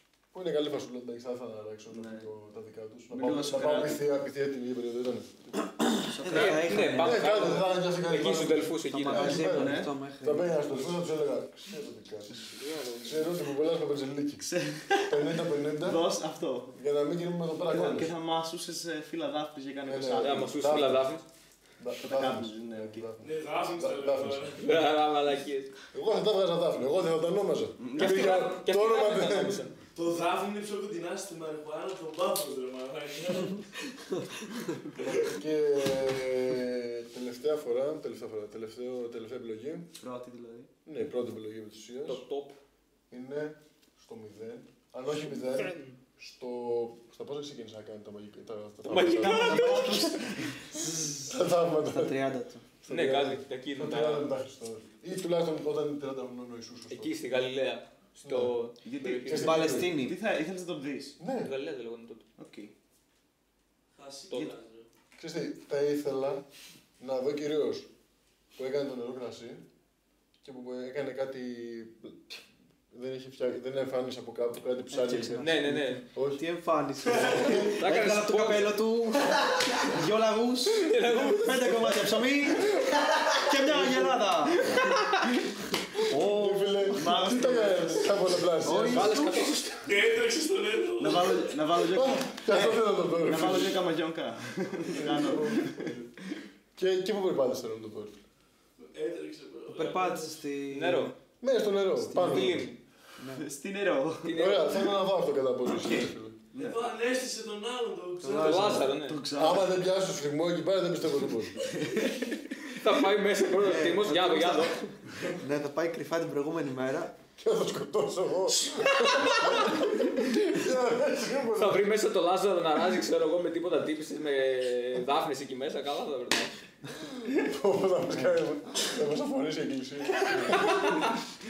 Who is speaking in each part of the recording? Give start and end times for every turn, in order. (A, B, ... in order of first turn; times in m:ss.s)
0:00.3-0:05.3 A
0:01.9-0:02.3 B
0:03.1-0:04.0 B
0:05.5-0:07.6 C
0:06.2-0:06.7 B
0:06.2-0:09.4 D
0:06.9-0:16.0 A
0:08.9-0:10.5 C
0:09.3-0:09.9 B
0:12.5-0:13.3 D
0:14.4-0:16.7 B
0:16.7-0:18.1 A
0:17.7-0:20.6 B
0:19.8-0:21.1 A
0:20.2-0:21.2 D
0:21.8-0:24.6 A
0:22.0-0:23.1 B
0:23.2-0:24.6 E
0:24.6-0:25.7 D
0:25.9-0:29.6 A
0:27.8-0:28.3 B
0:28.0-0:29.8 D
0:29.9-0:33.8 E
0:35.0-0:39.9 A
0:40.0-0:40.7 B
0:40.8-0:42.2 A
0:42.0-0:42.6 D
0:43.1-0:52.2 A
0:45.3-0:46.0 D
0:48.8-0:50.2 D
0:49.2-0:50.6 B
0:50.7-0:51.4 C
0:51.9-0:52.7 C
0:52.8-0:57.1 A
0:52.9-0:54.3 D
0:56.9-0:59.8 D
0:58.2-0:58.6 A
0:58.8-1:01.2 B
0:59.2-1:00.0 A
0:59.4-1:00.2 C
1:01.2-1:01.5 A
1:01.4-1:02.2 D
1:02.4-1:02.7 B
1:04.0-1:04.9 E
1:05.2-1:06.4 A
1:07.0-1:07.9 A
1:08.6-1:09.6 A
1:10.4-1:12.4 A
1:12.9-1:15.6 A
1:14.9-1:24.9 C
1:15.4-1:16.0 D
1:16.1-1:16.4 A
1:17.0-1:17.8 A
1:17.6-1:18.8 D
1:20.7-1:22.1 D
1:26.0-1:27.2 C
1:26.1-1:29.2 A
1:26.9-1:28.3 B
1:28.6-1:29.5 C
1:28.8-1:29.9 D
1:29.8-1:31.6 E
1:31.0-1:36.0 B
1:31.9-1:33.8 A
1:34.9-1:36.1 A
1:36.8-1:38.2 A
1:38.9-1:40.4 E
1:39.7-1:41.1 C
1:40.7-1:41.1 D
1:41.4-1:42.7 A
1:42.0-1:42.6 C
1:42.1-1:42.8 D
1:43.2-1:43.5 C
1:43.3-1:44.5 B
1:44.2-1:44.8 D
1:44.3-1:46.4 A
1:45.7-1:46.8 B
1:46.6-1:48.9 E
1:48.2-1:48.9 C
1:48.4-1:49.2 D
1:48.9-1:49.7 B
1:49.4-1:51.6 A
1:51.7-1:52.5 B
1:52.7-1:54.8 D
1:53.6-1:57.1 C
1:57.4-2:01.9 A
1:58.9-1:59.8 D
2:01.5-2:06.6 D
2:07.3-2:11.0 A
2:10.4-2:11.1 D